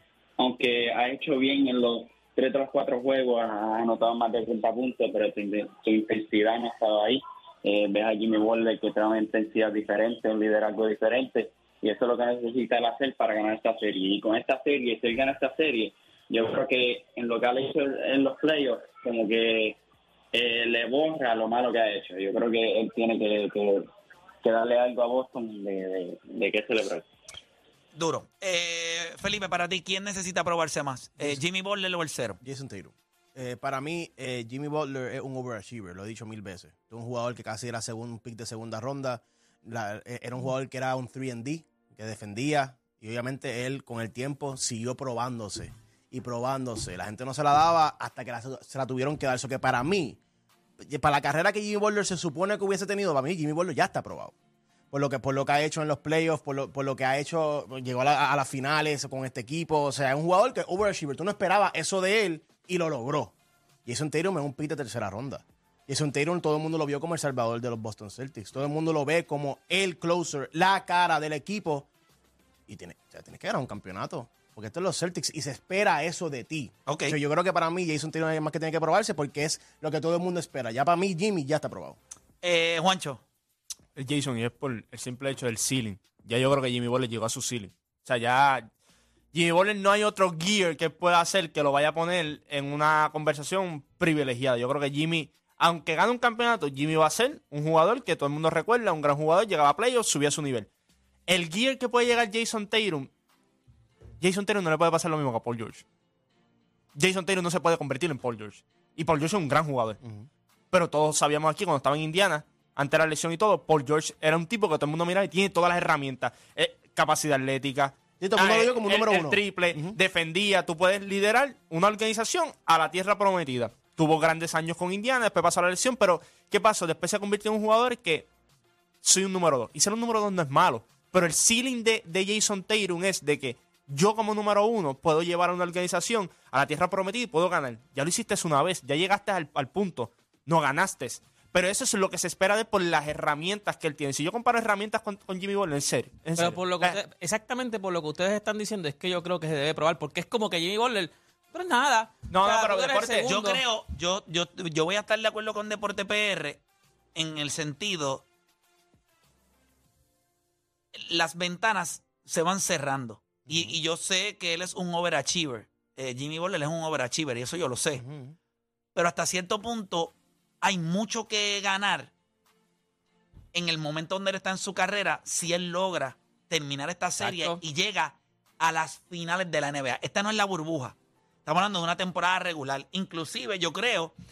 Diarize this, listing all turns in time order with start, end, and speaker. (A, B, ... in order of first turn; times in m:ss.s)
0:00.4-0:19.8 A
0:20.3-0:23.9 A
0:24.4-0:27.0 A
0:27.9-0:32.4 B
0:32.4-0:50.2 C
0:50.8-0:54.3 C
0:54.9-1:03.3 C
1:03.8-1:11.9 C
1:12.7-1:22.0 C
1:16.9-1:17.2 B
1:22.4-1:23.2 B
1:24.0-1:28.7 D
1:29.3-1:40.7 D
1:41.3-1:43.1 D
1:44.2-1:45.8 D
1:47.0-1:50.0 D
1:50.7-2:08.3 D
1:58.2-2:00.0 C
2:09.0-2:27.0 D
2:26.4-2:33.6 E
2:32.3-2:33.3 D
2:33.2-2:36.6 B
2:37.1-2:38.2 B
2:40.9-2:48.0 B
2:43.5-2:43.8 C
2:47.9-2:48.3 C
2:48.9-2:52.1 B
2:53.5-3:04.1 B
2:57.2-2:57.6 E